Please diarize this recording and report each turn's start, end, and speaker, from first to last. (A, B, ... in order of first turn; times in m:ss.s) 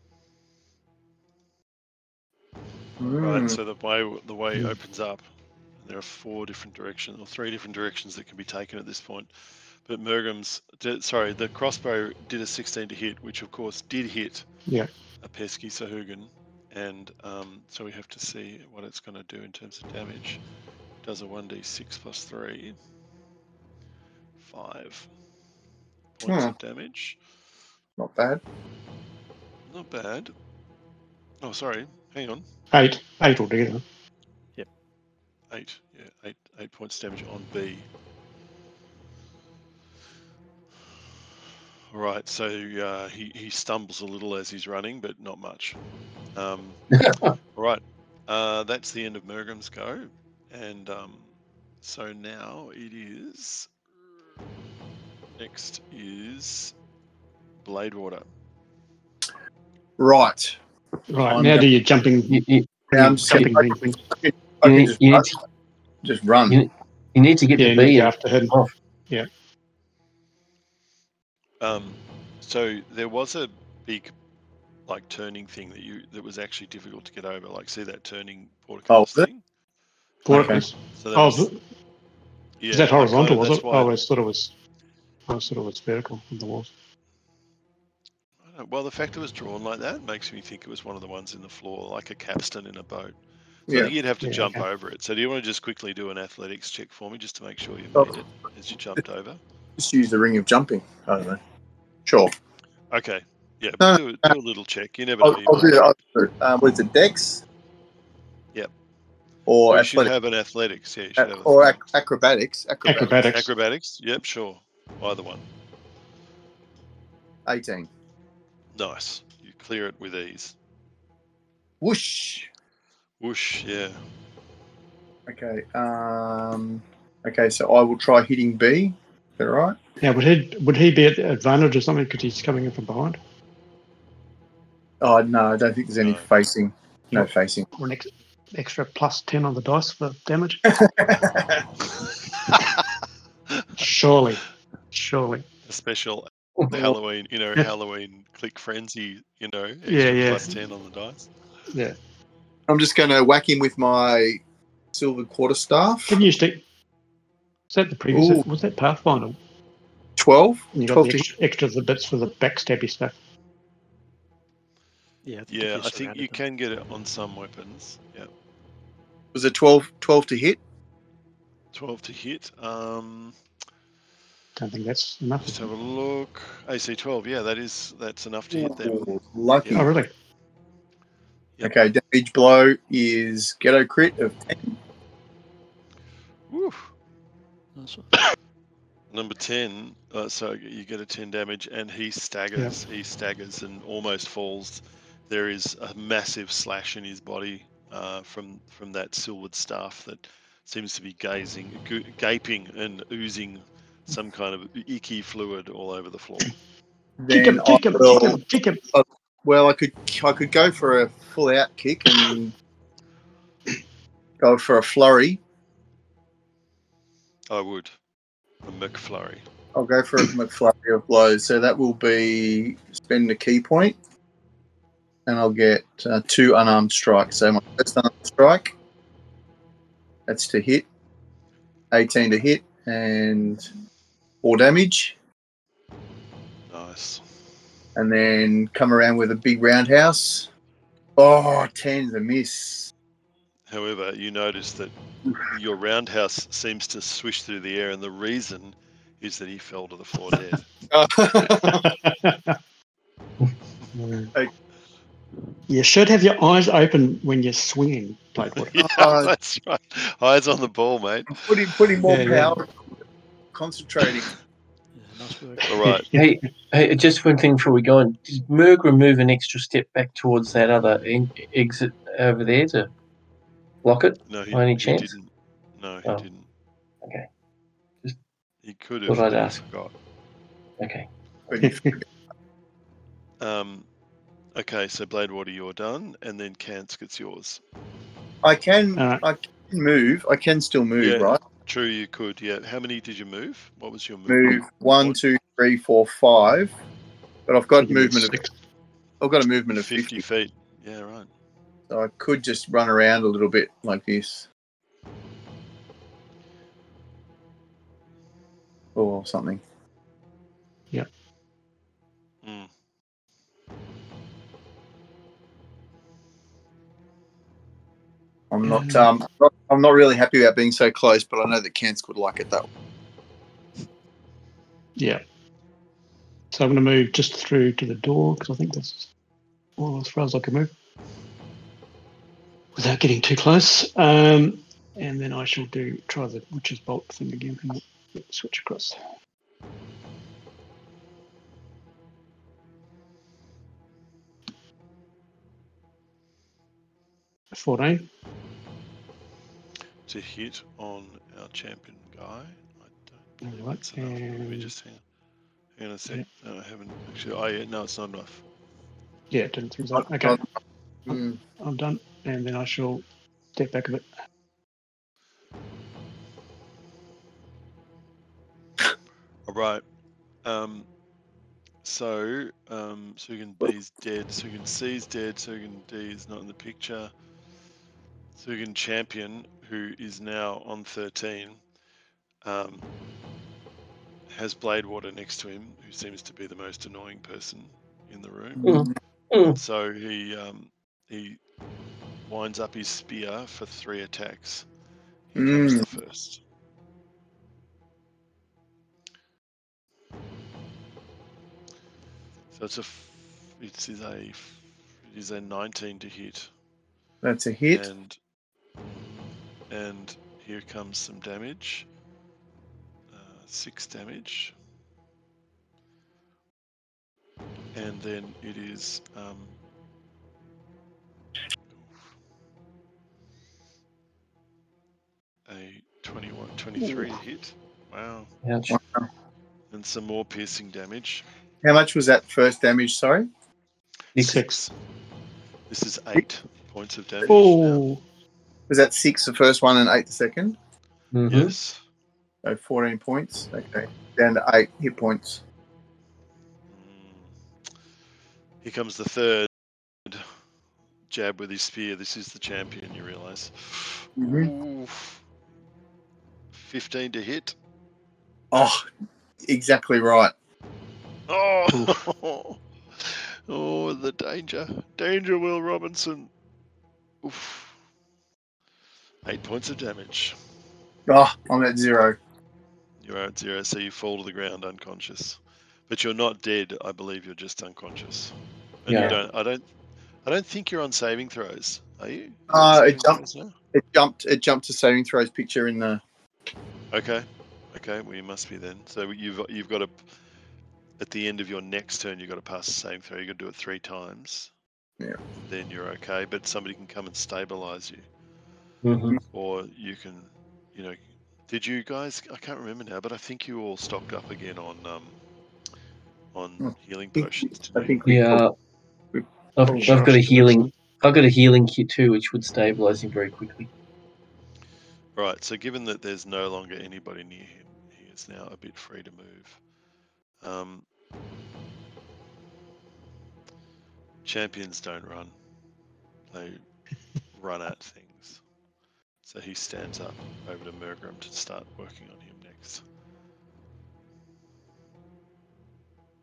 0:03.0-0:03.6 A
0:03.1-0:05.2 B
0:05.8-0:14.4 B
0:15.2-0:20.4 B
0:21.0-0:22.8 B
0:24.4-0:25.1 B
0:26.2-0:27.2 B
0:26.2-0:26.5 A
0:28.0-0:28.4 A
0:29.7-0:30.3 B
0:31.4-0:32.4 B
0:32.7-0:33.8 C
0:35.5-0:37.9 B
0:41.9-0:45.8 B
0:46.3-0:46.9 B
0:47.0-0:47.3 D
0:47.6-0:53.8 B
0:55.3-0:56.7 B
0:57.6-0:58.3 B
1:00.0-1:00.6 A
1:01.1-1:02.4 C
1:01.2-1:01.6 A
1:02.3-1:03.5 D
1:02.9-1:05.3 A
1:02.9-1:04.0 C
1:04.6-1:05.4 D
1:06.0-1:06.6 A
1:06.5-1:08.7 D
1:07.6-1:08.5 C
1:11.6-1:14.1 B
1:14.9-1:19.4 B
1:18.9-1:19.3 A
1:20.2-1:21.6 C
1:20.3-1:20.6 A
1:20.3-1:21.5 B
1:22.6-1:23.9 B
1:22.7-1:24.5 C
1:25.3-1:26.7 C
1:28.4-1:39.4 B
1:33.7-1:33.9 A
1:34.2-1:34.6 C
1:39.8-1:41.4 A
1:42.0-1:42.3 A
1:42.9-1:45.9 B
1:43.8-1:44.3 A
1:45.2-1:47.4 A
1:49.5-1:50.1 A
1:49.7-1:51.8 B
1:51.2-1:53.2 A
1:52.8-1:53.5 C
1:53.3-1:55.4 B
1:57.4-1:57.9 A
1:58.7-2:00.5 B
2:01.8-2:02.5 A
2:03.2-2:04.0 B
2:05.3-2:09.8 A
2:10.0-2:13.2 C
2:15.0-2:17.7 A
2:16.0-2:16.3 B
2:17.1-2:20.6 C
2:20.7-2:21.6 A
2:22.4-2:22.8 B
2:23.5-2:23.8 B
2:23.8-2:25.4 C
2:25.6-2:31.3 B
2:29.9-2:30.5 C
2:31.7-2:32.0 C
2:32.7-2:34.4 A
2:34.9-2:36.2 A
2:36.1-2:36.6 C
2:37.7-2:39.4 C
2:38.1-2:38.4 A
2:40.2-2:41.3 A
2:40.7-2:43.2 C
2:45.2-2:46.4 E
2:45.5-2:48.3 B
2:49.3-2:50.6 A
2:51.7-2:53.4 B
2:54.6-2:55.7 C
2:55.4-2:59.9 B
2:58.5-2:59.9 A
2:59.7-3:00.1 C
3:01.6-3:04.7 A
3:06.5-3:06.9 B
3:07.7-3:08.3 E
3:09.1-3:26.5 B
3:27.2-3:28.4 A
3:27.3-3:28.8 C
3:28.9-3:32.5 A
3:34.4-3:35.4 A
3:37.5-3:37.9 B
3:38.6-3:39.4 B
3:39.7-3:44.0 A
3:45.2-3:48.7 A
3:50.3-3:50.9 A
3:51.9-3:53.7 A
3:54.4-3:55.2 A
3:56.7-3:57.2 B
3:58.0-4:00.5 A
4:01.2-4:02.9 A
4:03.7-4:10.7 B
4:10.9-4:11.9 A
4:11.5-4:12.6 C
4:13.9-4:14.3 C
4:15.7-4:18.8 C
4:18.6-4:21.5 B
4:18.8-4:19.3 A
4:21.3-4:22.9 A
4:22.0-4:22.6 C
4:23.5-4:24.3 A
4:24.9-4:26.0 E
4:25.6-4:26.1 B
4:25.8-4:26.3 C
4:26.1-4:32.9 D
4:33.8-4:35.1 D
4:34.3-4:36.4 B
4:37.0-4:37.3 D
4:38.6-4:39.9 B
4:39.1-4:39.6 D
4:40.8-4:41.1 D
4:41.5-4:42.0 A
4:41.6-4:41.9 C
4:43.4-4:43.9 B
4:44.5-4:47.6 B
4:48.4-4:51.4 A
4:49.0-4:49.2 C
4:51.0-4:55.2 B
4:54.3-4:56.7 A
4:57.5-4:58.4 A
4:57.8-4:58.5 C
4:59.2-5:00.2 A
4:59.7-5:01.3 B
5:01.9-5:04.5 A
5:08.9-5:09.6 A
5:12.4-5:12.7 B
5:18.5-5:22.7 A
5:18.6-5:19.1 C
5:25.0-5:25.2 C
5:26.5-5:29.1 C
5:29.8-5:30.7 C
5:32.8-5:39.0 C
5:47.5-5:48.1 C
5:50.1-5:55.0 B
5:53.4-5:54.7 C
5:55.8-5:58.4 B
5:59.3-6:00.4 C
5:59.9-6:00.4 A
6:01.1-6:01.4 A
6:01.1-6:03.0 C
6:03.6-6:04.1 C
6:09.5-6:09.8 B
6:10.4-6:10.9 B
6:11.8-6:17.1 B
6:18.4-6:21.6 B
6:22.4-6:22.9 B
6:24.3-6:28.7 B
6:28.6-6:28.9 A
6:28.6-6:29.6 D
6:29.4-6:31.4 B
6:32.2-6:34.6 B
6:35.3-6:36.4 B
6:35.4-6:35.9 A
6:42.5-6:46.5 B
6:47.2-6:47.9 A
6:47.7-6:48.2 B
6:48.8-6:51.9 B
6:53.1-6:54.5 B
6:57.7-6:59.6 B
7:01.7-7:02.0 B
7:05.5-7:08.3 B
7:08.4-7:08.8 D
7:08.7-7:09.0 A
7:09.7-7:11.2 B
7:11.6-7:13.3 A
7:14.1-7:14.7 B
7:14.2-7:14.7 C
7:15.7-7:17.8 B
7:17.2-7:18.0 C
7:18.7-7:20.6 A
7:21.1-7:21.5 D
7:21.3-7:21.8 B
7:22.4-7:25.4 A
7:26.7-7:27.3 B
7:28.6-7:29.5 B
7:30.0-7:30.3 B
7:31.1-7:35.2 B
7:34.2-7:34.5 A
7:36.5-7:37.5 B
7:38.5-7:38.9 A
7:39.4-7:40.3 A
7:41.3-7:46.3 B
7:47.2-7:47.8 B
7:49.2-7:50.4 B
7:51.1-7:52.2 A
7:53.0-7:58.3 B
7:58.8-7:59.6 B
7:58.9-7:59.2 D
8:00.2-8:03.5 B
8:02.5-8:03.2 A
8:03.7-8:06.0 A
8:06.9-8:10.0 B
8:11.0-8:14.5 B
8:15.4-8:18.1 B
8:18.8-8:19.2 D
8:19.3-8:25.2 B
8:26.3-8:28.0 B
8:26.6-8:28.4 A
8:28.0-8:28.5 D
8:29.1-8:30.1 A
8:29.6-8:33.7 D
8:29.7-8:30.5 B
8:35.2-8:39.6 B
8:40.4-8:40.8 B
8:44.2-8:45.3 B
8:46.3-8:46.6 B
8:47.3-8:48.4 B
8:49.2-8:52.8 B